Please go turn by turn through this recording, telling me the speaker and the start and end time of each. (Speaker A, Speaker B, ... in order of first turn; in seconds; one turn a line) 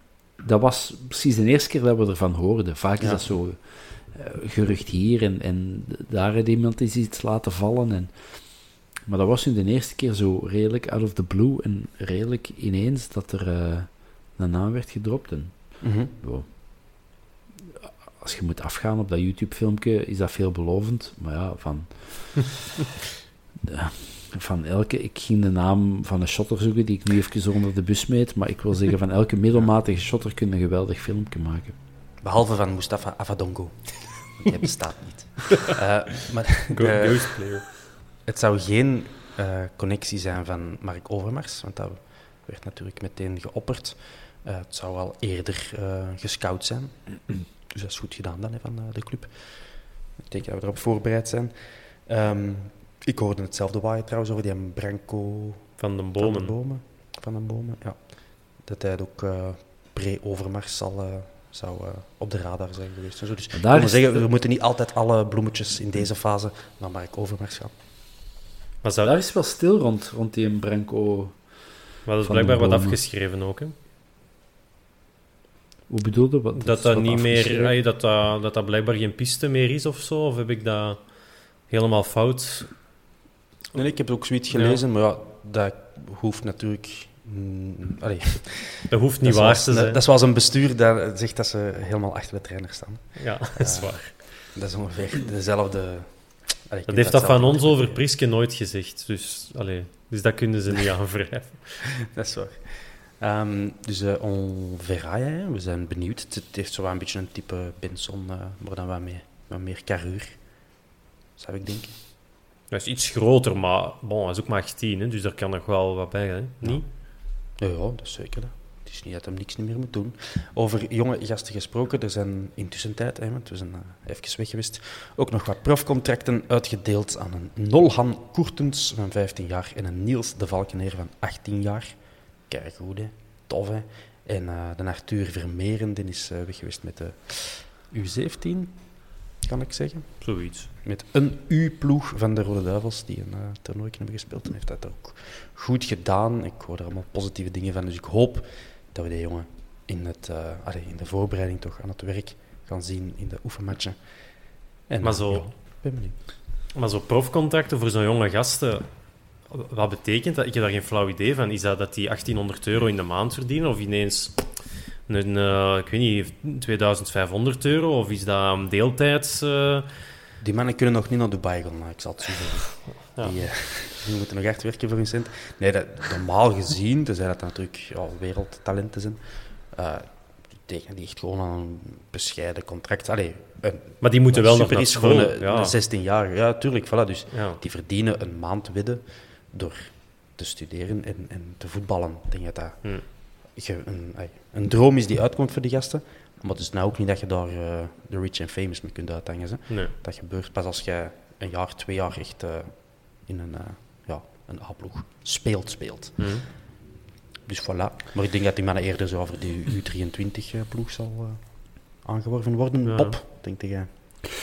Speaker A: 0.4-17.1
Speaker B: 15.8-16.1
Speaker A: 18.2-22.6
Speaker A: 23.7-31.8
Speaker B: 32.2-37.7
Speaker C: 36.7-37.9
Speaker B: 38.2-67.7
Speaker C: 55.8-56.5
Speaker A: 63.5-64.3
Speaker C: 68.8-69.1
Speaker A: 69.0-71.7
Speaker C: 72.1-73.7
Speaker A: 72.2-73.0
Speaker A: 75.9-77.8
Speaker C: 76.5-82.8
Speaker B: 83.8-98.0
Speaker C: 84.5-84.8
Speaker C: 88.9-90.0
Speaker C: 93.2-94.2
Speaker C: 96.9-101.8
Speaker B: 102.1-110.6
Speaker B: 111.4-112.0
Speaker C: 112.7-116.8
Speaker B: 117.6-156.2
Speaker C: 140.2-140.7
Speaker C: 155.0-155.8
Speaker C: 156.8-158.9
Speaker C: 159.4-164.5
Speaker C: 165.1-169.9
Speaker B: 170.4-206.4
Speaker C: 173.1-173.4
Speaker C: 184.0-185.8
Speaker C: 187.3-187.6
Speaker C: 206.2-206.4
Speaker B: 207.4-213.9
Speaker C: 212.8-213.2